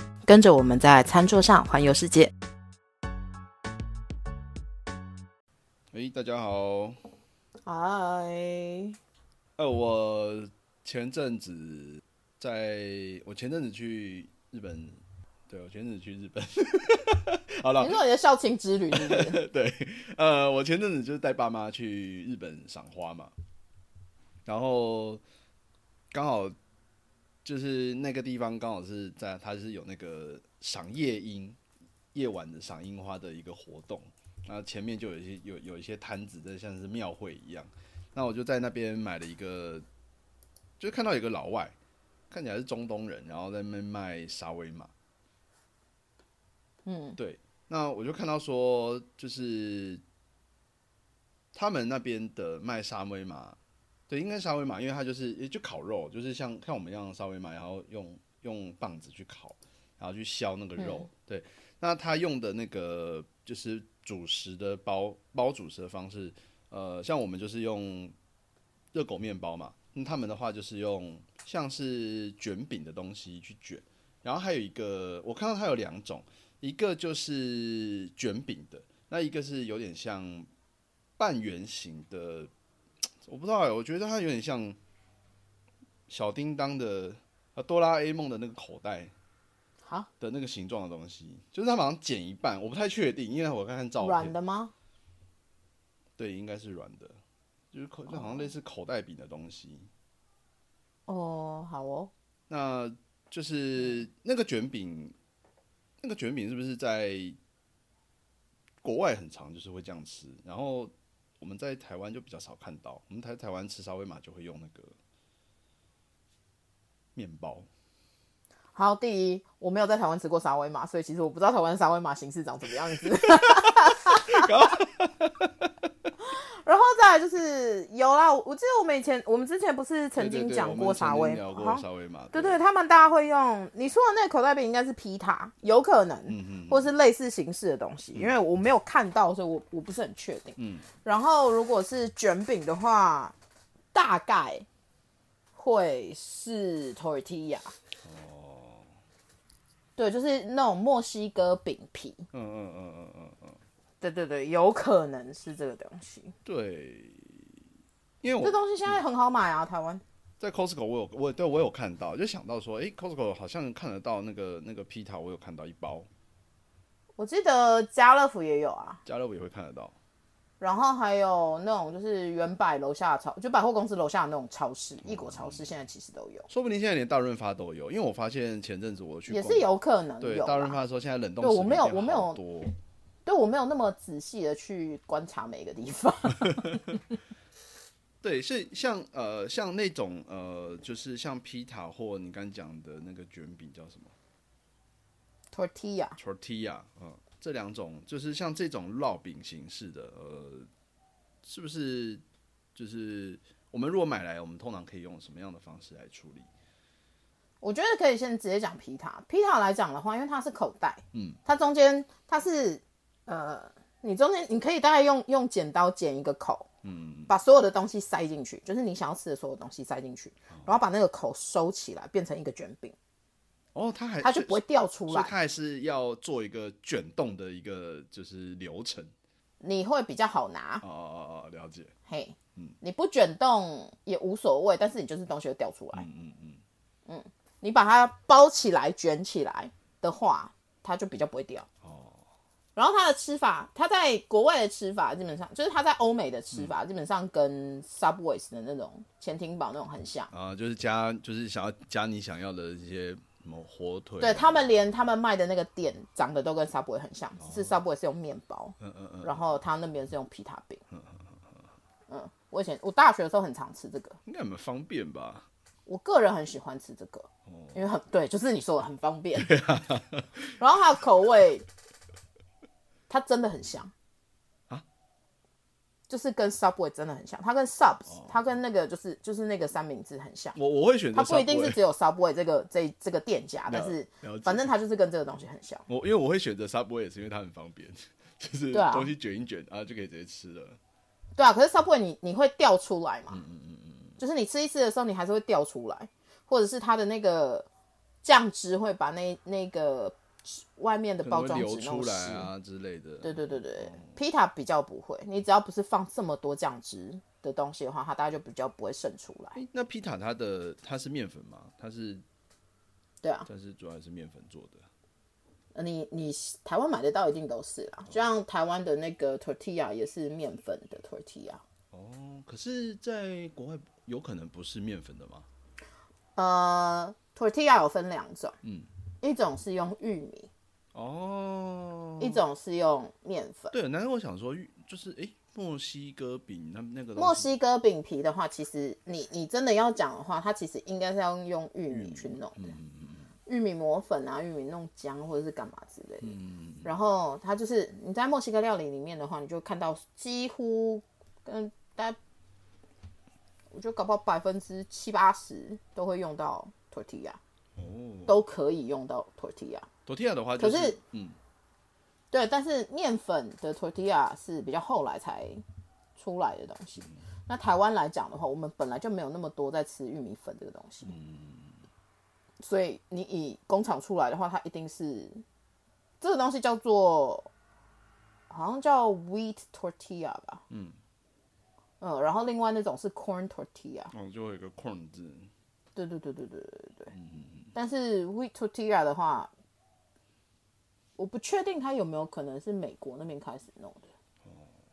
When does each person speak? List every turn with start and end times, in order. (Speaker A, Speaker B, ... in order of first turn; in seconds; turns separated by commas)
Speaker A: 0.3-2.3, Speaker B: 5.9-7.0, Speaker A: 7.7-9.0, Speaker B: 9.6-18.0, Speaker A: 17.8-19.4, Speaker B: 18.9-23.3, Speaker B: 24.5-25.2, Speaker B: 26.1-26.6, Speaker B: 27.4-31.6, Speaker B: 32.1-39.9, Speaker B: 40.8-41.8, Speaker B: 42.3-44.9, Speaker A: 46.9-47.2, Speaker B: 47.2-50.0, Speaker B: 51.5-53.6, Speaker B: 54.1-68.1, Speaker A: 60.8-61.1, Speaker B: 68.9-80.5, Speaker B: 81.2-82.5, Speaker B: 83.2-84.8, Speaker B: 86.1-89.1, Speaker A: 89.8-90.1, Speaker B: 90.2-94.4, Speaker A: 94.0-94.7, Speaker B: 96.2-97.2, Speaker B: 97.7-99.9, Speaker A: 98.1-98.5, Speaker A: 101.1-102.1, Speaker B: 102.5-105.2, Speaker B: 106.0-107.4, Speaker B: 108.8-115.0, Speaker B: 117.2-117.7, Speaker A: 118.8-124.7, Speaker B: 124.1-125.7, Speaker A: 126.3-143.4, Speaker B: 130.2-132.6, Speaker B: 136.3-136.9, Speaker B: 140.6-140.9, Speaker A: 143.9-144.7, Speaker A: 145.6-147.8, Speaker B: 148.0-148.9, Speaker A: 150.0-152.3, Speaker B: 152.3-153.6, Speaker A: 154.0-156.3, Speaker B: 156.4-157.5, Speaker B: 158.2-159.0, Speaker A: 158.4-160.0, Speaker B: 160.4-166.1, Speaker A: 167.2-169.0, Speaker B: 169.1-169.9, Speaker A: 170.6-176.5, Speaker B: 175.1-175.7, Speaker B: 176.5-179.7, Speaker A: 179.3-180.8, Speaker B: 180.2-182.8, Speaker A: 181.4-182.4, Speaker A: 183.3-186.8, Speaker B: 188.2-194.2, Speaker A: 195.5-196.2, Speaker B: 196.2-200.7, Speaker B: 201.4-202.2, Speaker B: 202.8-206.5, Speaker A: 207.6-216.7, Speaker B: 211.1-211.4, Speaker B: 216.8-217.3, Speaker A: 217.3-222.9, Speaker B: 223.8-229.1, Speaker A: 224.2-225.3, Speaker A: 229.6-230.8, Speaker B: 230.8-231.9, Speaker A: 232.1-236.1, Speaker B: 235.9-236.6, Speaker A: 237.1-241.7, Speaker B: 241.8-242.2, Speaker A: 242.8-250.3, Speaker B: 250.3-254.6, Speaker A: 254.2-260.8, Speaker B: 257.4-257.8, Speaker B: 258.8-259.4, Speaker B: 260.9-261.3, Speaker A: 262.1-264.2, Speaker B: 264.3-265.5, Speaker A: 265.9-269.5, Speaker B: 267.5-267.8, Speaker B: 269.4-270.5, Speaker A: 270.6-271.7, Speaker A: 273.1-273.9, Speaker A: 276.1-280.6, Speaker B: 278.1-278.4, Speaker B: 280.6-281.8, Speaker A: 281.1-285.9, Speaker B: 283.7-284.7, Speaker B: 285.9-290.8, Speaker A: 288.7-289.1, Speaker A: 291.4-293.4, Speaker B: 293.3-294.2, Speaker A: 294.2-297.7, Speaker A: 298.2-302.5, Speaker B: 301.2-304.1, Speaker A: 303.2-309.6, Speaker B: 309.5-312.2, Speaker A: 313.2-313.5, Speaker B: 313.5-314.9, Speaker A: 315.8-321.6, Speaker B: 321.9-325.5, Speaker A: 326.4-328.6, Speaker B: 328.6-328.9, Speaker A: 329.2-330.5, Speaker B: 330.9-332.4, Speaker A: 332.2-333.8, Speaker B: 333.7-337.5, Speaker A: 337.2-342.8, Speaker B: 341.9-343.3, Speaker A: 343.5-352.2, Speaker B: 346.2-346.9, Speaker A: 353.7-357.4, Speaker B: 357.8-358.4, Speaker A: 358.3-359.9, Speaker B: 360.1-361.4, Speaker A: 360.6-361.0, Speaker A: 362.3-365.6, Speaker A: 366.2-371.1, Speaker B: 371.1-371.8, Speaker A: 372.6-375.4, Speaker A: 376.2-377.5, Speaker A: 378.5-380.6, Speaker B: 380.7-381.0, Speaker A: 382.0-384.1, Speaker B: 384.1-385.5, Speaker A: 385.9-387.1, Speaker B: 387.1-387.7, Speaker A: 387.8-389.5, Speaker A: 391.2-394.1, Speaker B: 394.4-394.7